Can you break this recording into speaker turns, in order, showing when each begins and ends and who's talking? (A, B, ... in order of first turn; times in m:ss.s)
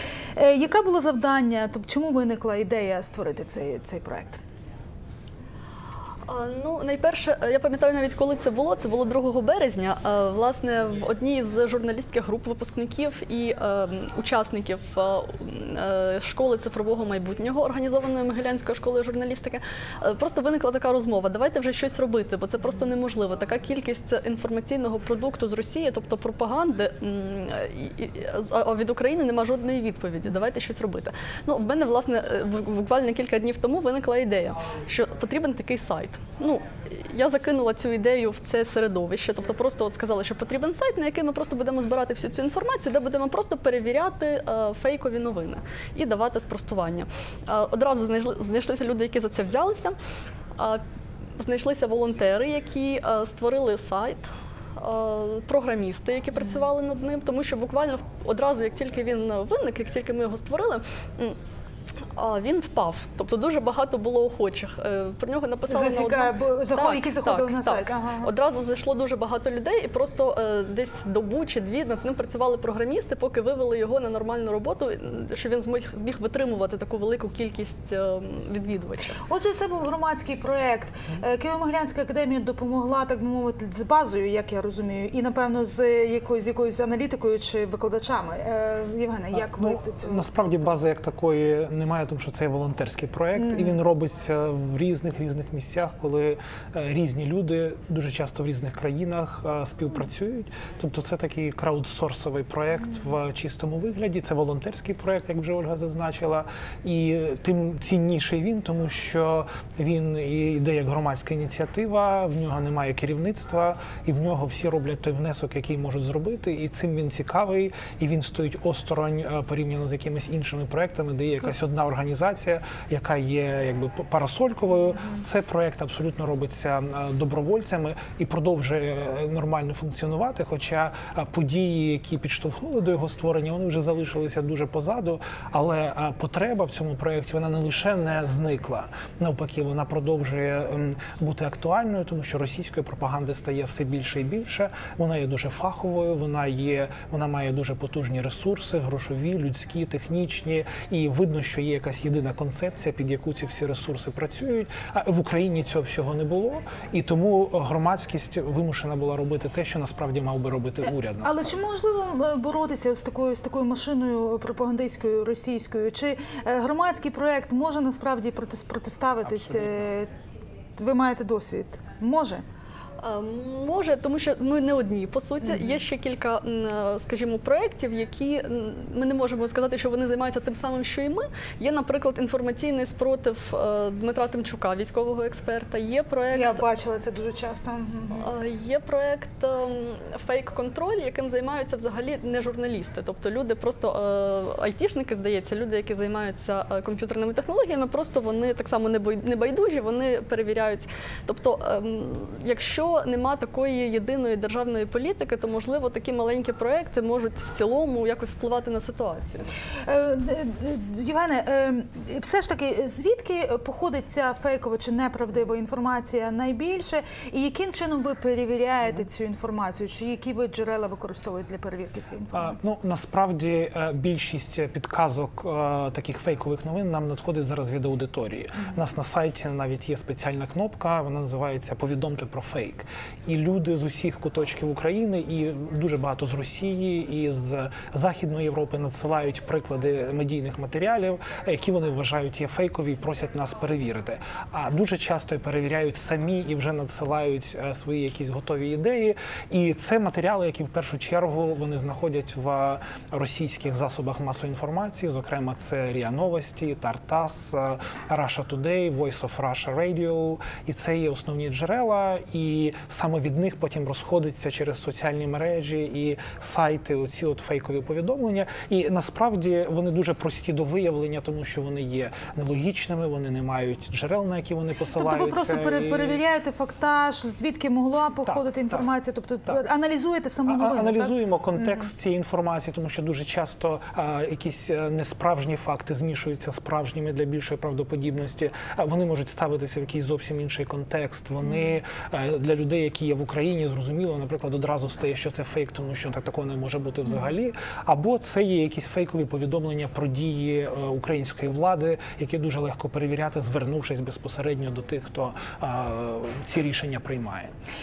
0:00.4-0:04.4 A
0:06.3-0:50.0 B
0:51.4-0:54.3 B
0:54.8-1:01.4 B
1:02.2-1:19.2 B
1:05.7-1:08.3 A
1:19.2-1:30.7 A
1:29.4-2:41.4 C
1:33.4-1:33.8 A
2:41.2-2:50.1 A
2:49.2-2:49.8 C
2:50.8-2:52.4 A
2:53.0-3:06.6 B
3:06.3-3:08.3 A
3:08.1-3:29.5 B
3:29.8-3:42.6 A
3:42.3-4:36.2 C
4:34.9-4:41.8 A
4:38.2-4:38.9 C
4:40.5-5:07.5 C